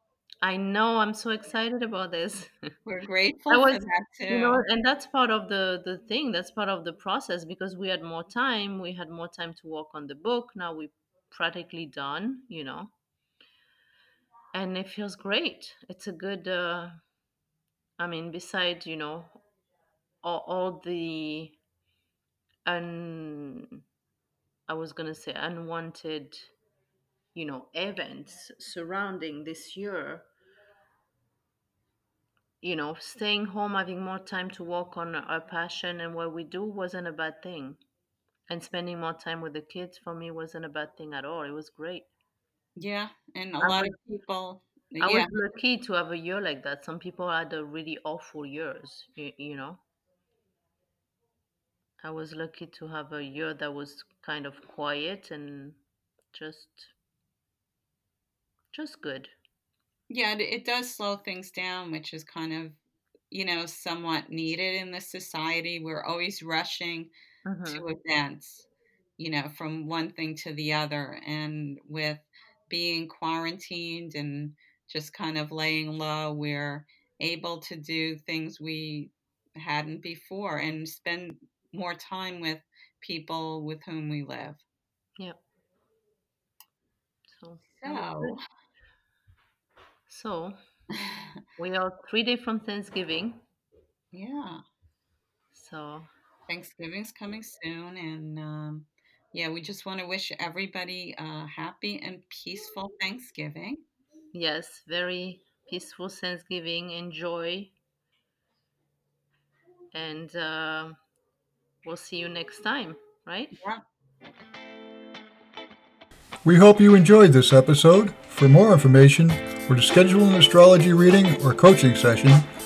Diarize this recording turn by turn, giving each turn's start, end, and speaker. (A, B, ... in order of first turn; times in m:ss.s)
0:00.4-0:02.6 A
0:02.8-0:04.6 B
0:03.5-0:12.9 A
0:14.5-0:17.0 A
0:18.0-0:19.4 A
0:20.2-0:21.6 A
0:22.6-0:23.8 A
0:24.7-0:26.5 A
0:27.3-0:30.3 A
0:32.6-0:37.8 A
0:38.5-0:42.1 A
0:42.8-0:45.3 B
0:43.6-0:44.0 A
0:45.0-0:49.8 A
0:52.0-0:55.8 A
0:56.3-0:56.9 A
0:58.7-0:59.3 A
1:00.1-1:02.8 B
1:03.3-1:07.1 B
1:07.4-1:07.8 A
1:07.7-1:08.7 B
1:09.2-1:24.6 B
1:27.3-1:28.4 A
1:27.8-1:28.4 B
1:30.1-1:30.6 A
1:31.0-1:31.2 B
1:31.6-1:33.4 A
1:34.1-1:34.6 B
1:35.5-1:36.1 A
1:36.5-1:43.8 B
1:44.3-1:47.7 A
1:49.9-1:51.0 A
1:51.8-1:53.6 A
1:53.5-1:53.8 B
1:56.4-2:02.4 C